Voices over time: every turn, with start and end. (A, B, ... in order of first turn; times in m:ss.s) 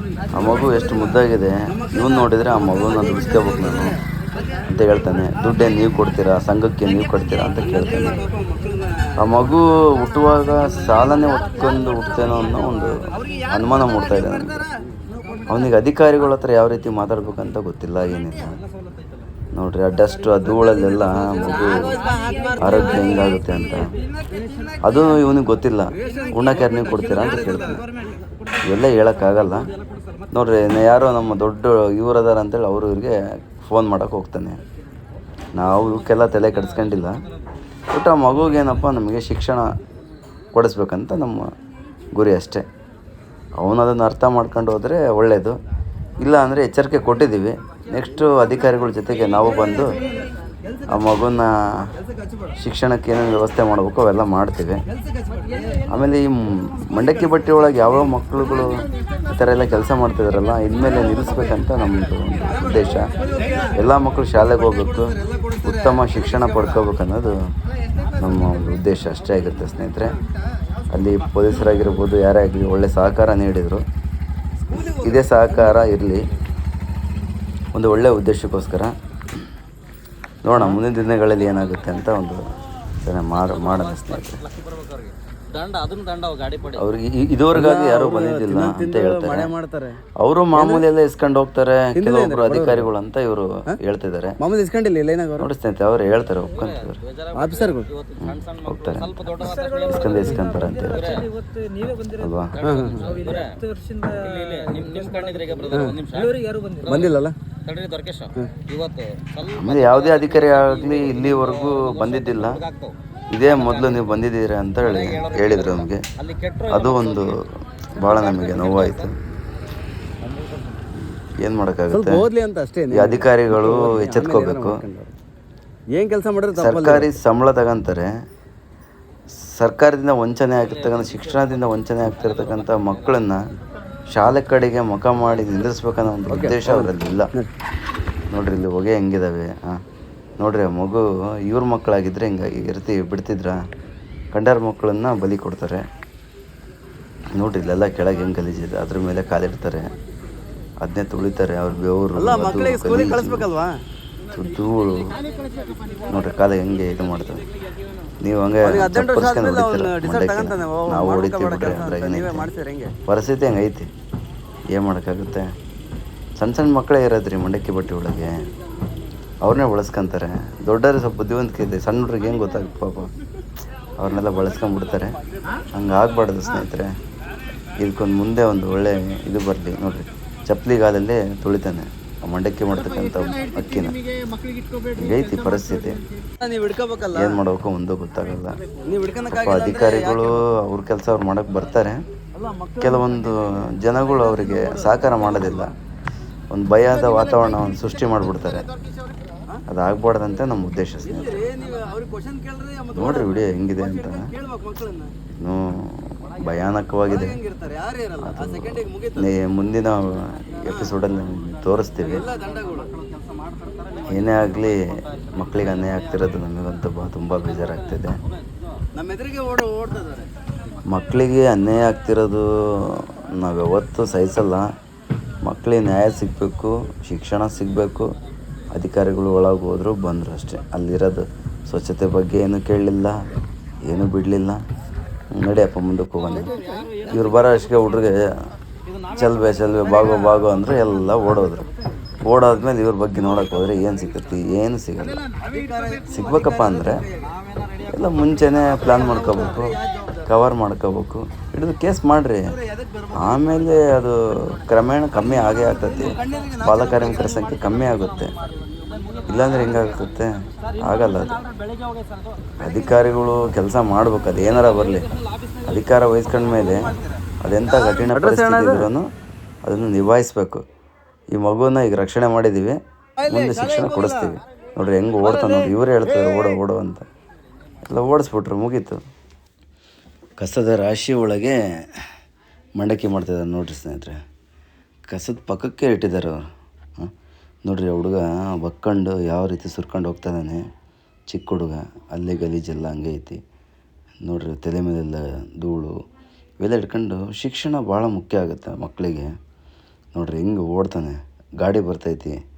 0:00.3-0:04.0 A
0:04.6-0:08.2 A
0:09.2-0:14.6 A
0:15.5-0:18.6 A
0:19.5-0:22.0 A
0:22.0-0:22.5 B
0:22.6-0:23.9 A
0:24.8-0:27.8 A
0:28.6-0:29.7 A
0:30.3-0:34.6 A
0:35.5-0:37.2 A
0:37.9-0:39.7 A
0:40.5-0:41.5 A
0:42.1-0:42.6 A
0:43.6-0:45.6 A
0:46.2-0:50.0 A
0:50.9-0:51.5 A
0:52.6-0:54.8 A
0:55.9-1:03.1 A
1:03.4-1:03.7 B
1:03.7-1:07.4 A
1:08.2-1:10.2 A
1:10.9-1:13.8 A
1:14.7-1:16.3 A
1:17.7-1:18.9 A
1:20.4-1:22.4 A
1:23.0-1:24.4 A
1:24.6-1:26.7 C
1:26.7-1:29.5 A
1:27.5-1:30.0 B
1:30.2-1:34.4 A
1:30.6-1:30.8 B
1:32.0-1:32.9 B
1:34.4-1:35.5 B
1:35.4-1:37.0 A
1:37.2-1:38.3 C
1:37.3-1:37.9 B
1:38.2-1:41.2 A
1:38.9-1:40.0 C
1:42.1-1:42.6 A
1:42.6-1:43.2 B
1:42.6-1:47.0 C
1:45.7-1:46.0 B
1:46.8-1:47.4 B
1:47.6-1:52.9 C
1:49.5-1:52.6 A
1:53.3-1:56.0 A
1:55.0-1:55.5 C
1:56.2-1:57.0 C
1:56.7-1:59.1 A
2:01.4-2:02.2 A
2:01.9-2:05.1 B
2:02.9-2:04.8 A
2:05.9-2:07.1 B
2:06.5-2:08.1 A
2:09.5-2:13.4 A
2:14.1-2:17.3 A
2:16.3-2:17.5 B
2:18.3-2:19.8 A
2:20.4-2:23.6 A
2:24.3-2:25.9 A
2:27.4-2:29.9 A
2:30.8-2:33.5 A
2:32.2-2:33.7 B
2:34.3-2:35.2 A
2:36.1-2:37.4 A
2:38.2-2:42.5 A
2:38.6-2:42.9 B
2:43.0-2:43.9 A
2:44.7-2:45.5 A
2:46.4-2:48.4 A
2:49.4-2:53.1 A
2:54.0-2:55.2 A
2:55.7-2:56.9 A
2:57.8-3:04.0 A
3:04.9-3:06.0 A
3:06.4-3:07.4 B
3:07.1-3:08.6 A
3:08.8-3:10.4 B
3:09.3-3:12.0 A
3:12.4-3:13.1 B
3:12.8-3:15.7 A
3:16.5-3:18.7 A
3:19.7-3:21.5 A
3:21.2-3:23.3 B
3:22.9-3:24.3 A
3:24.1-3:25.1 B
3:25.3-3:27.4 A
3:27.3-3:29.2 B
3:28.2-3:32.2 A
3:32.2-3:33.3 B
3:34.1-3:38.2 A
3:38.9-3:40.3 B
3:40.9-3:44.7 A
3:45.4-3:48.1 A
3:48.7-3:53.2 A
3:53.9-3:54.6 A
3:55.3-3:58.3 A
3:56.5-3:57.0 B
3:59.1-4:01.7 A
4:02.2-4:05.2 A
4:05.5-4:06.6 B
4:06.1-4:07.0 A
4:07.9-4:12.5 A
4:13.1-4:18.3 A
4:19.3-4:21.4 A
4:22.6-4:25.1 A
4:25.6-4:29.1 A
4:27.9-4:28.9 B
4:29.6-4:30.6 A
4:31.3-4:37.0 A
4:33.2-4:34.0 B
4:37.8-4:39.0 A
4:40.4-4:41.6 A
4:42.8-4:44.2 A
4:45.1-4:46.5 A
4:47.6-4:50.6 A
4:51.3-4:53.4 A
4:54.2-4:56.0 A
4:56.6-4:59.3 A
5:00.1-5:02.4 A